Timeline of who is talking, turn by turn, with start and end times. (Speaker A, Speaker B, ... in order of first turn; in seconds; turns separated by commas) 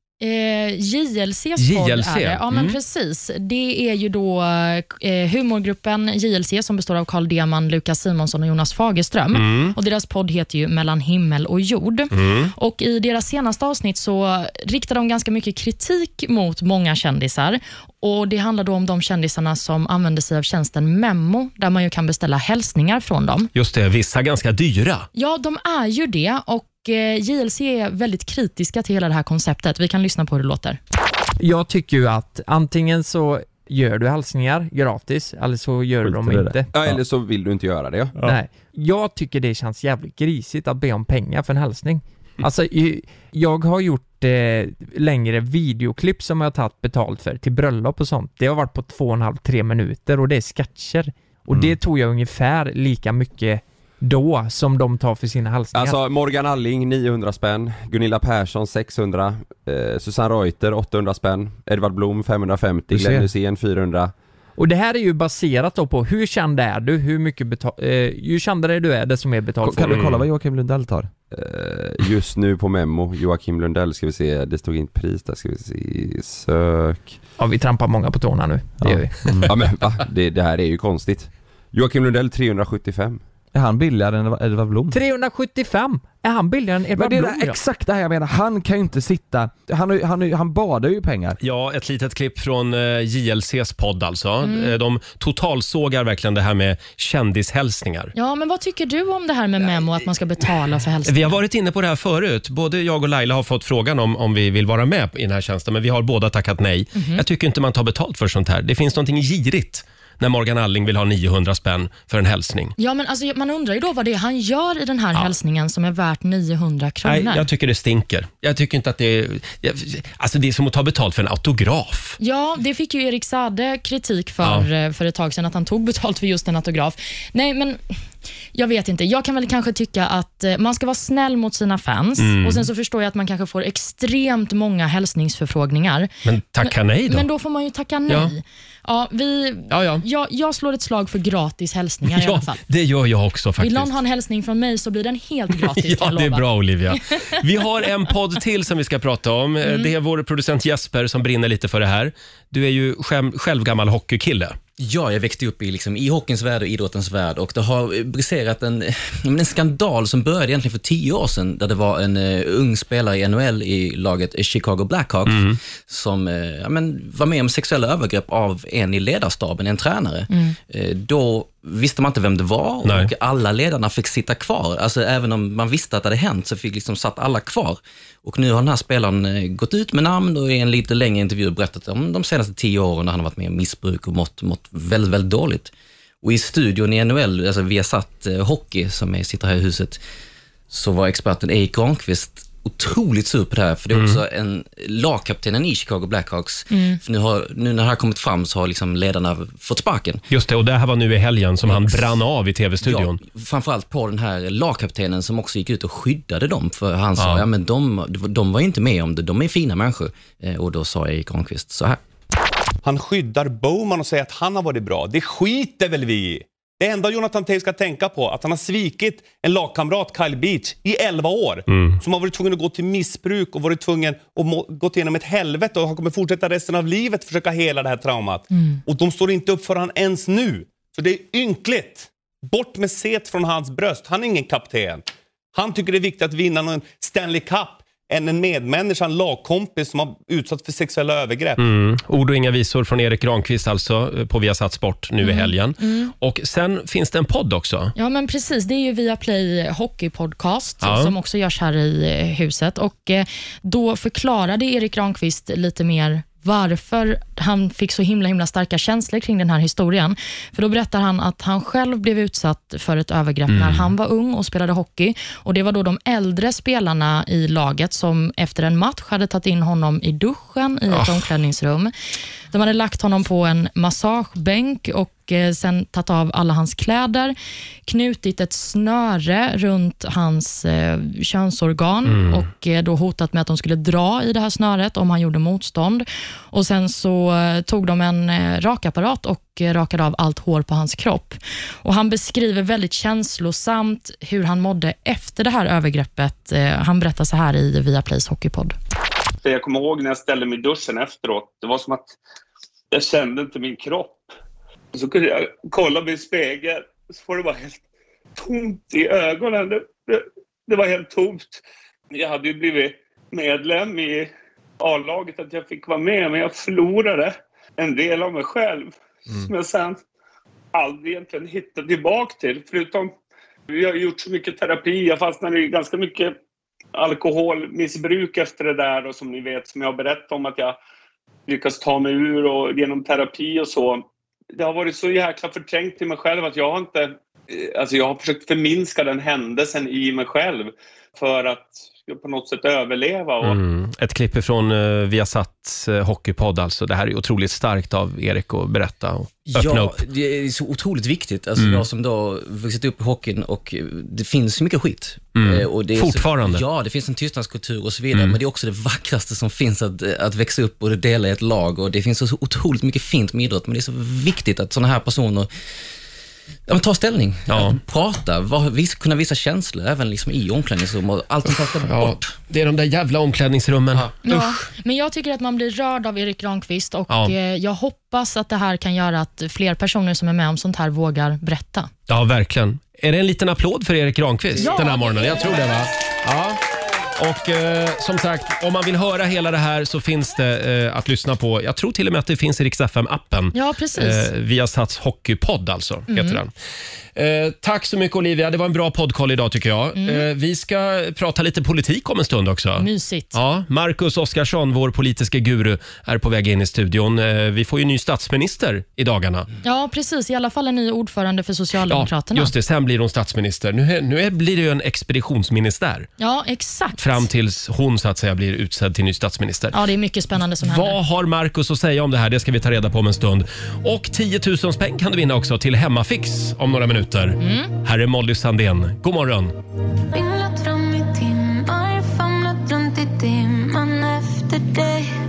Speaker A: 0.2-23.5, Speaker B: 1.6-2.8, Speaker B: 9.3-9.8, Speaker B: 12.1-12.5, Speaker B: 23.5-25.1, Speaker A: 25.1-30.8, Speaker C: 31.4-36.7, Speaker D: 36.0-36.6, Speaker E: 36.7-38.3, Speaker C: 38.2-56.0, Speaker E: 55.8-64.1, Speaker D: 62.9-63.3, Speaker C: 64.6-70.1, Speaker D: 69.6-71.1, Speaker B: 69.9-70.2, Speaker E: 71.3-77.2, Speaker C: 77.4-79.3, Speaker D: 78.8-79.6, Speaker E: 79.4-83.2, Speaker D: 83.5-85.0, Speaker C: 84.9-87.6, Speaker D: 86.9-91.4, Speaker B: 91.4-98.1, Speaker A: 94.4-94.8, Speaker A: 98.1-101.4, Speaker B: 101.0-112.7, Speaker A: 106.9-107.2, Speaker A: 112.8-117.5, Speaker B: 117.0-122.2, Speaker A: 122.2-127.8, Speaker A: 128.5-136.1, Speaker B: 132.2-132.7, Speaker B: 136.2-137.3, Speaker A: 136.6-142.6, Speaker B: 138.1-138.3, Speaker B: 139.7-140.0, Speaker B: 142.1-143.9, Speaker A: 143.6-146.4, Speaker B: 145.6-154.6, Speaker A: 149.6-149.9, Speaker F: 154.8-190.0, Speaker B: 165.2-165.6, Speaker A: 170.3-170.6, Speaker B: 172.8-173.1, Speaker F: 190.7-200.2, Speaker B: 193.9-194.2, Speaker A: 196.7-197.0, Speaker B: 200.3-203.2, Speaker F: 201.6-202.2, Speaker F: 202.8-212.0, Speaker B: 207.2-207.4, Speaker G: 212.8-241.6, Speaker B: 221.7-222.0, Speaker A: 228.5-228.8, Speaker B: 241.6-247.9, Speaker A: 245.2-246.1, Speaker A: 247.9-271.9, Speaker B: 250.8-251.1, Speaker B: 263.5-263.9, Speaker B: 270.9-271.3, Speaker A: 272.5-277.4, Speaker A: 277.9-298.7, Speaker B: 282.1-282.4, Speaker H: 299.4-302.1, Speaker H: 302.9-304.2, Speaker H: 304.9-307.8, Speaker H: 308.4-320.0, Speaker H: 320.7-323.1, Speaker H: 323.7-326.4, Speaker H: 326.9-330.8, Speaker H: 331.5-334.0, Speaker H: 334.6-343.6, Speaker B: 343.4-350.0, Speaker F: 349.4-365.5, Speaker B: 351.6-351.8, Speaker B: 355.4-356.6, Speaker B: 358.1-358.4, Speaker F: 366.7-372.3, Speaker B: 367.5-367.8, Speaker B: 371.8-374.6, Speaker A: 374.2-381.9, Speaker B: 382.1-386.6, Speaker A: 384.6-385.7, Speaker B: 387.2-396.5, Speaker A: 393.5-394.3, Speaker A: 396.1-396.4, Speaker B: 397.1-409.5, Speaker A: 399.9-400.2, Speaker A: 402.8-403.4, Speaker A: 409.6-412.5, Speaker B: 411.9-416.1, Speaker A: 416.2-417.2, Speaker B: 417.0-419.8, Speaker A: 419.7-421.0, Speaker B: 420.6-429.5, Speaker A: 427.4-427.7, Speaker I: 430.1-435.1